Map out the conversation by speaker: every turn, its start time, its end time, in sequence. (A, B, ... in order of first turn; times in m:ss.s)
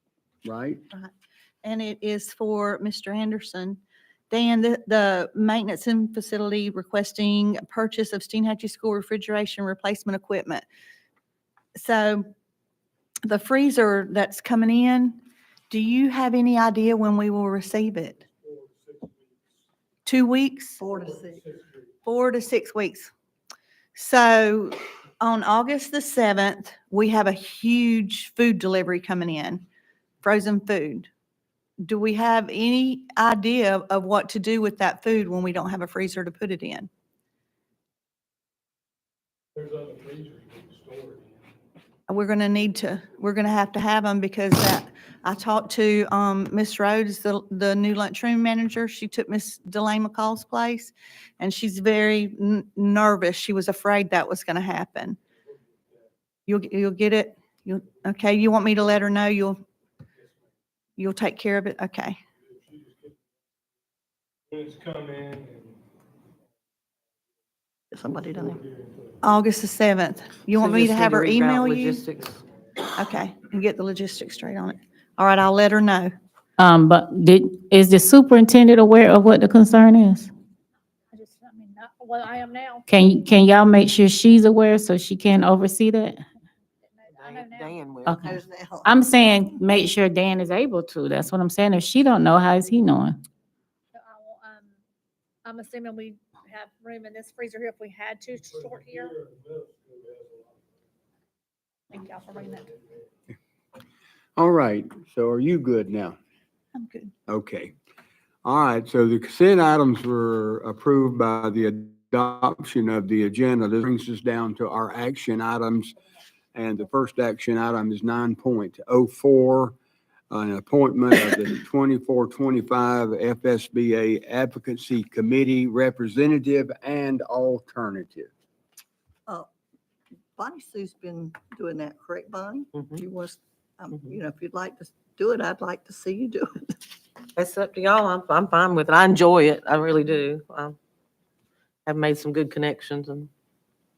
0:00.4-0:00.8 A
0:01.6-0:10.6 B
0:11.8-0:12.3 B
0:13.3-0:15.2 B
0:15.7-0:18.2 B
0:20.1-0:20.8 B
0:20.8-0:21.5 C
0:22.0-0:23.1 B
0:24.0-0:29.6 B
0:30.2-0:31.1 B
0:31.8-0:36.9 B
0:39.6-0:41.2 D
0:42.1-0:55.2 B
0:56.5-0:59.6 B
1:01.0-1:02.2 B
1:04.5-1:05.7 D
1:07.9-1:08.6 C
1:09.2-1:12.0 B
1:10.5-1:12.4 E
1:13.0-1:16.1 B
1:16.6-1:20.3 F
1:21.1-1:22.9 G
1:22.9-1:26.2 F
1:27.0-1:27.8 G
1:27.1-1:28.2 E
1:28.0-1:33.2 F
1:28.2-1:29.0 C
1:34.0-1:34.7 G
1:35.4-1:39.2 G
1:39.0-1:40.4 D
1:41.9-1:42.8 G
1:44.4-1:46.2 A
1:46.7-1:47.1 B
1:47.3-1:47.7 A
1:48.4-1:56.0 A
1:56.6-1:59.7 A
2:00.3-2:08.3 A
2:10.4-2:16.7 C
2:17.4-2:20.8 E
2:21.9-2:23.3 E